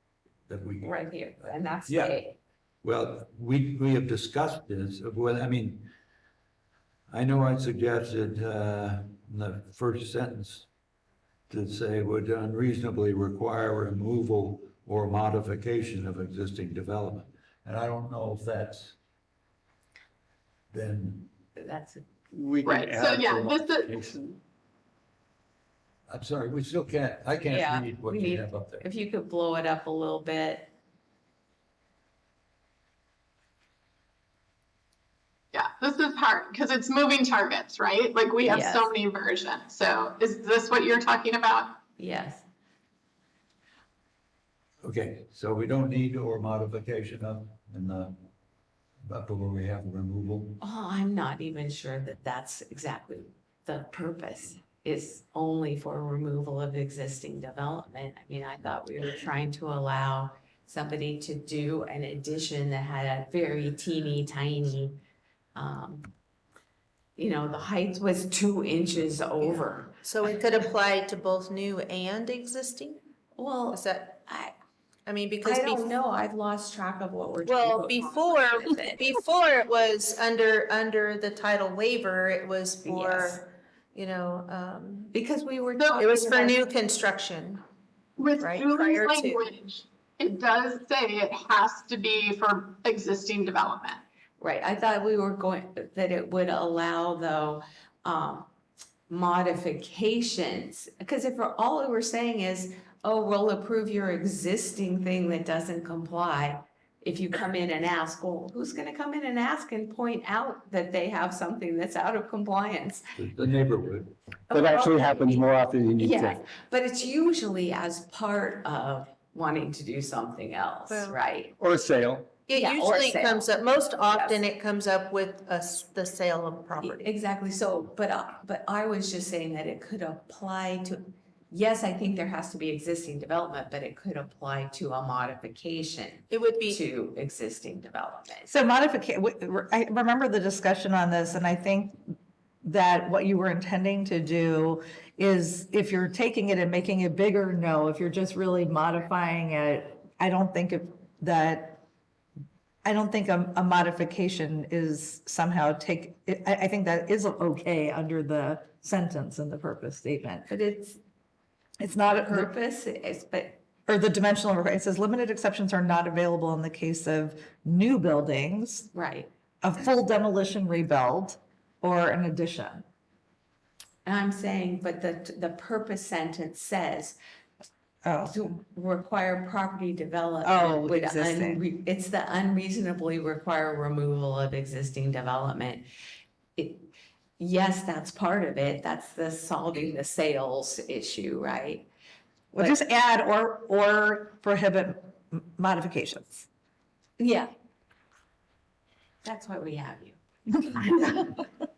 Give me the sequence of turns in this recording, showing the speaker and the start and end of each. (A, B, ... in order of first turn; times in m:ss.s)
0:00.5-0:02.2 A
0:00.8-0:02.4 B
0:02.8-0:05.9 A
0:07.1-0:10.7 A
0:11.5-0:19.0 A
0:20.7-0:21.3 A
0:21.6-0:22.0 B
0:22.3-0:24.4 C
0:22.6-0:24.0 D
0:26.1-0:28.9 A
0:27.5-0:30.7 B
0:35.5-0:41.8 D
0:38.5-0:38.9 B
0:42.0-0:42.4 B
0:44.8-0:48.2 A
0:49.0-0:50.6 A
0:50.6-1:05.0 B
1:05.6-1:06.1 B
1:07.2-1:10.0 B
1:09.4-1:13.0 E
1:13.4-1:14.5 B
1:13.7-1:14.1 E
1:15.1-1:15.9 E
1:15.4-1:19.1 B
1:17.5-1:25.1 E
1:22.8-1:23.4 B
1:25.1-1:26.7 B
1:25.8-1:26.1 D
1:26.0-1:27.6 E
1:28.2-1:34.0 D
1:28.4-1:29.4 E
1:34.4-1:38.5 B
1:39.1-1:53.0 B
1:53.2-1:54.1 A
1:54.5-2:01.6 B
1:54.5-1:56.4 C
2:00.9-2:01.1 E
2:01.6-2:02.3 C
2:02.5-2:07.0 E
2:02.5-2:03.5 B
2:04.0-2:04.4 B
2:06.8-2:18.5 B
2:16.3-2:16.8 E
2:18.5-2:31.8 F
2:32.8-2:40.5 F
2:40.5-2:41.0 B
2:41.8-2:42.5 F
2:42.1-2:43.6 B
2:43.9-2:48.9 F
2:48.9-2:49.3 B
2:49.6-2:52.8 F
2:54.0-2:57.2 B
2:58.0-2:58.5 F
2:58.2-3:05.9 B
3:00.4-3:01.6 F
3:06.6-3:11.9 B
3:12.5-3:16.5 F
3:17.2-3:17.5 B
3:19.2-3:21.3 B